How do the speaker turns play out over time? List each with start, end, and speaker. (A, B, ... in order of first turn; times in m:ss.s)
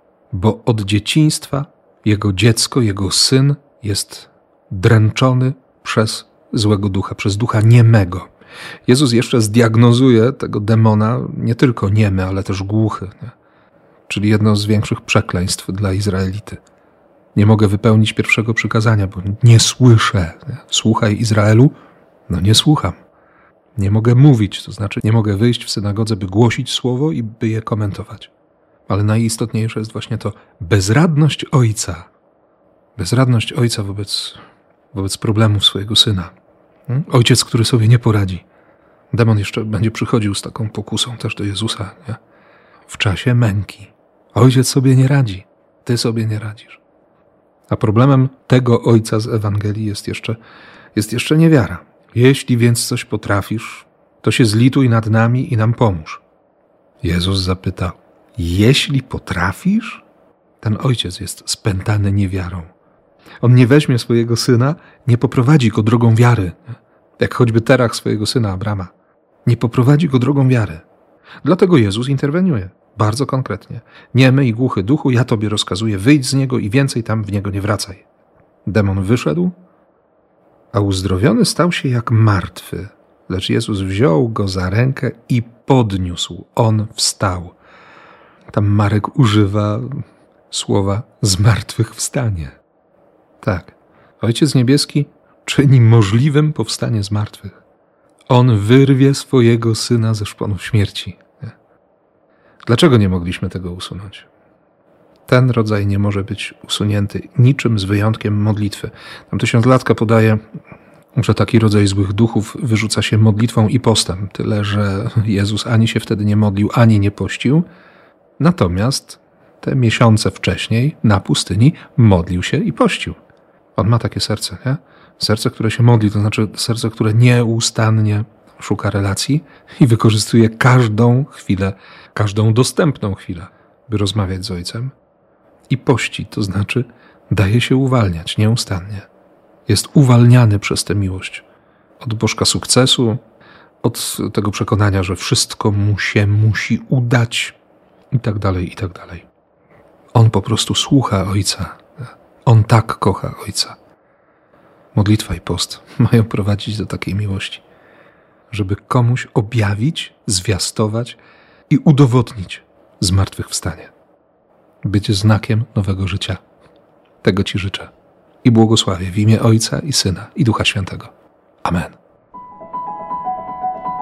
0:00.3-0:08.3 A
0:08.8-0:13.3 A
0:14.1-0:16.6 A
0:17.3-0:21.7 A
0:22.3-0:23.0 A
0:23.8-0:28.3 A
0:28.9-0:32.1 A
0:33.0-0:36.3 A
0:36.9-0:38.4 A
0:39.1-0:42.2 A
0:42.9-0:46.8 A
0:47.7-0:50.4 A
0:50.9-0:56.2 A
0:57.0-1:00.0 A
1:00.6-1:02.7 A
1:03.4-1:08.9 A
1:09.4-1:10.8 A
1:11.4-1:18.0 A
1:18.6-1:19.6 A
1:20.7-1:27.6 A
1:28.5-1:32.6 A
1:33.4-1:37.6 A
1:38.3-1:41.5 A
1:42.6-1:44.3 A
1:45.3-1:50.4 A
1:51.1-1:57.6 A
1:58.4-2:03.2 A
2:03.8-2:14.9 A
2:15.7-2:19.1 A
2:19.7-2:21.4 A
2:22.0-2:23.2 A
2:23.8-2:27.6 A
2:28.1-2:29.3 A
2:30.1-2:33.8 A
2:34.9-2:37.6 A
2:38.5-2:41.2 A
2:41.7-2:43.9 A
2:44.8-2:46.4 A
2:47.2-2:47.9 A
2:48.4-2:52.0 A